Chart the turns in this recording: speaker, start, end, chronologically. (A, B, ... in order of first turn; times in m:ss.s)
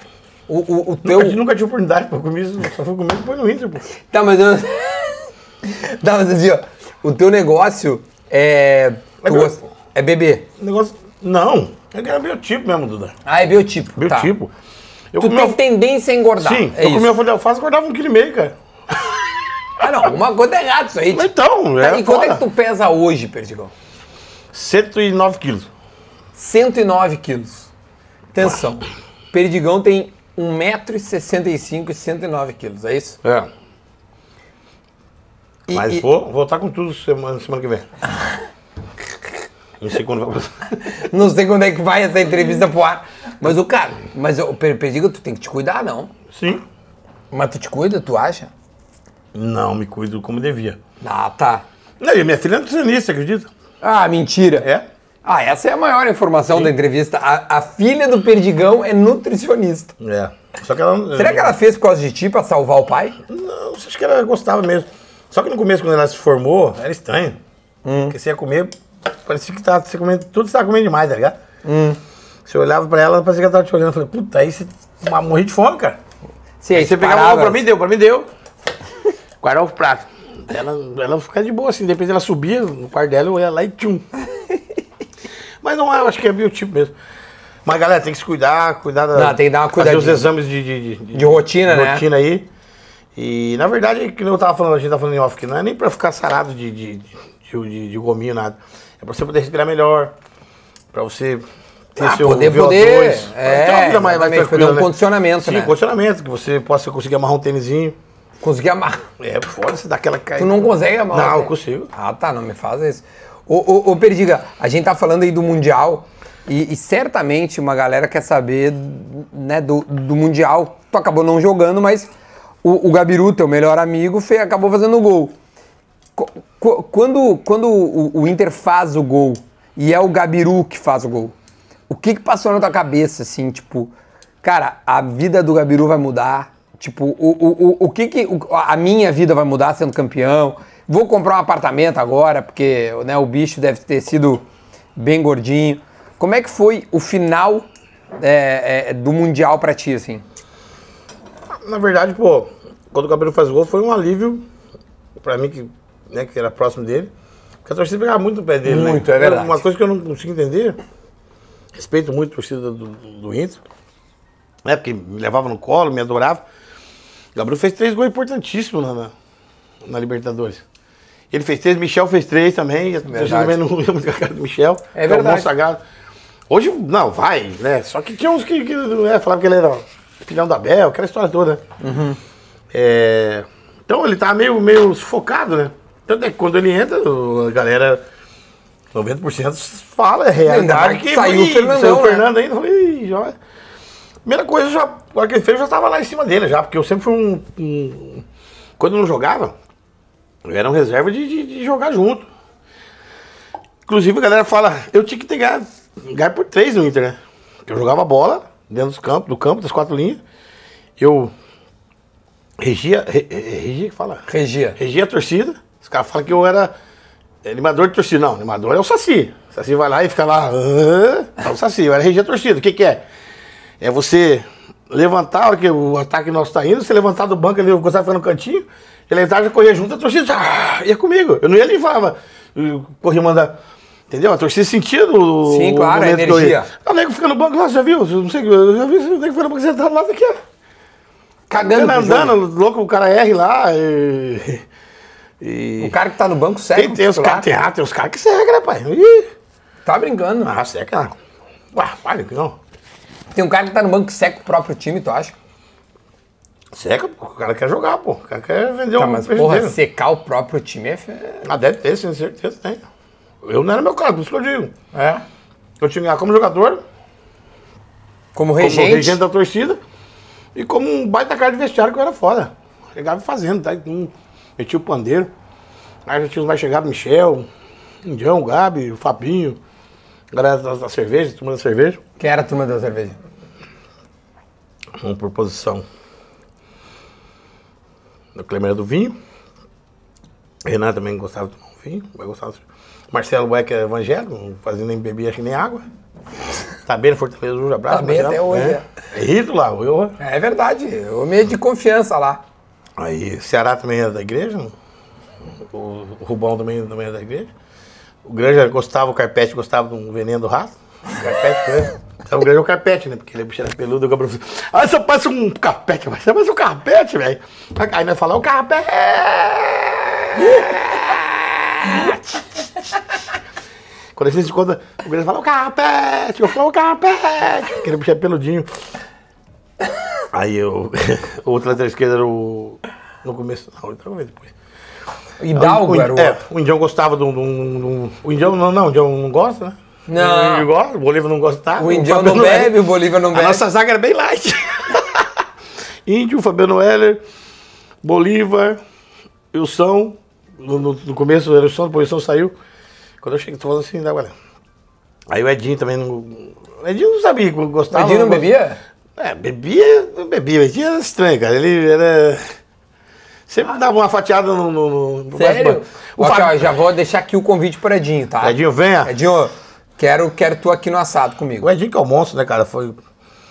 0:00.5-0:01.4 A
0:01.0-0:03.8 B
0:04.1-0:10.5 A
0:09.2-0:09.6 B
0:10.6-0:13.2 B
0:13.2-0:14.3 A
0:14.0-0:14.5 B
0:15.1-0:15.6 B
0:15.2-0:17.1 A
0:16.4-0:19.1 B
0:19.8-0:23.7 A
0:21.1-0:22.4 B
0:24.5-0:25.7 B
0:26.4-0:27.7 A
0:28.3-0:33.2 A
0:33.2-0:33.5 B
0:35.7-0:36.0 A
0:35.7-0:37.9 B
0:39.8-0:40.8 B
0:40.8-0:46.1 A
0:46.3-0:46.6 B
0:47.3-0:48.5 A
0:49.3-0:50.8 B
0:51.0-0:51.6 A
0:52.0-0:53.5 B
0:53.8-0:54.7 A
0:54.6-0:54.8 B
0:55.2-0:59.9 A
1:00.0-1:01.6 B
1:01.2-1:03.2 A
1:03.3-1:07.4 B
1:07.8-1:08.2 A
1:08.1-1:11.4 B
1:11.6-1:12.0 A
1:12.5-1:16.0 B
1:16.6-1:17.6 A
1:16.7-1:18.3 B
1:19.4-1:24.1 B
1:25.6-1:26.9 B
1:27.6-1:32.5 B
1:29.1-1:30.3 A
1:31.1-1:32.0 A
1:33.2-1:40.1 B
1:40.9-1:41.4 B
1:42.0-1:48.0 B
1:42.0-1:45.7 A
1:48.4-1:49.0 A
1:49.2-1:51.9 B
1:50.4-2:02.1 A
2:02.6-2:05.4 A
2:06.2-2:11.4 A
2:11.9-2:24.4 A
2:25.0-2:27.7 A
2:28.2-2:30.2 A
2:31.6-2:34.4 B
2:35.2-2:37.1 B
2:37.6-2:40.8 B
2:38.6-2:39.6 A
2:41.7-2:43.6 B
2:44.6-2:46.4 B
2:47.4-2:49.1 B
2:49.8-2:50.6 B
2:51.3-2:55.8 B
2:53.1-2:53.6 A
2:55.0-2:55.5 A
2:56.5-3:01.6 B
3:01.8-3:02.2 A
3:02.7-3:08.0 B
3:08.9-3:13.4 B
3:10.4-3:12.3 A
3:14.2-3:18.2 B
3:18.8-3:19.6 B
3:20.4-3:22.3 B
3:23.9-3:30.2 B
3:31.0-3:31.3 B
3:32.6-3:36.7 B
3:34.3-3:34.8 A
3:37.4-3:43.0 B
3:43.8-3:53.6 B
3:54.1-4:00.4 B
3:55.4-3:56.7 A
4:01.5-4:02.4 A
4:01.5-4:04.6 B
4:05.4-4:06.0 B
4:05.8-4:07.5 A
4:06.7-4:09.3 B
4:09.9-4:10.5 A
4:10.4-4:11.2 B
4:11.7-4:12.6 B
4:13.3-4:15.4 A
4:16.7-4:19.8 B
4:19.0-4:21.4 A
4:21.4-4:22.8 B
4:23.4-4:24.7 B
4:24.9-4:25.2 A
4:25.8-4:26.8 B
4:28.4-4:29.2 A
4:28.6-4:29.8 B
4:30.6-4:35.3 B
4:36.1-4:37.5 B
4:38.0-4:39.6 B
4:40.3-4:42.0 B
4:42.2-4:43.2 A
4:45.0-4:45.8 B
4:48.4-4:49.2 B
4:50.6-4:55.8 B
4:56.8-5:00.2 B
4:57.9-4:58.8 A
5:00.2-5:02.4 A
5:03.0-5:04.7 B
5:05.7-5:07.5 B
5:08.2-5:22.5 B
5:24.2-5:28.7 B
5:30.3-5:34.5 B
5:35.4-5:36.4 A
5:35.6-5:45.2 B
5:40.1-5:40.7 A
5:41.8-5:43.6 A
5:46.1-5:47.2 B
5:48.0-5:48.8 B
5:49.5-5:52.5 B
5:53.2-5:54.3 B
5:55.3-5:58.5 B
5:57.9-5:58.8 A
5:59.2-6:02.5 B
6:03.5-6:06.7 B
6:05.4-6:11.7 A
6:08.4-6:09.1 B
6:11.6-6:13.0 B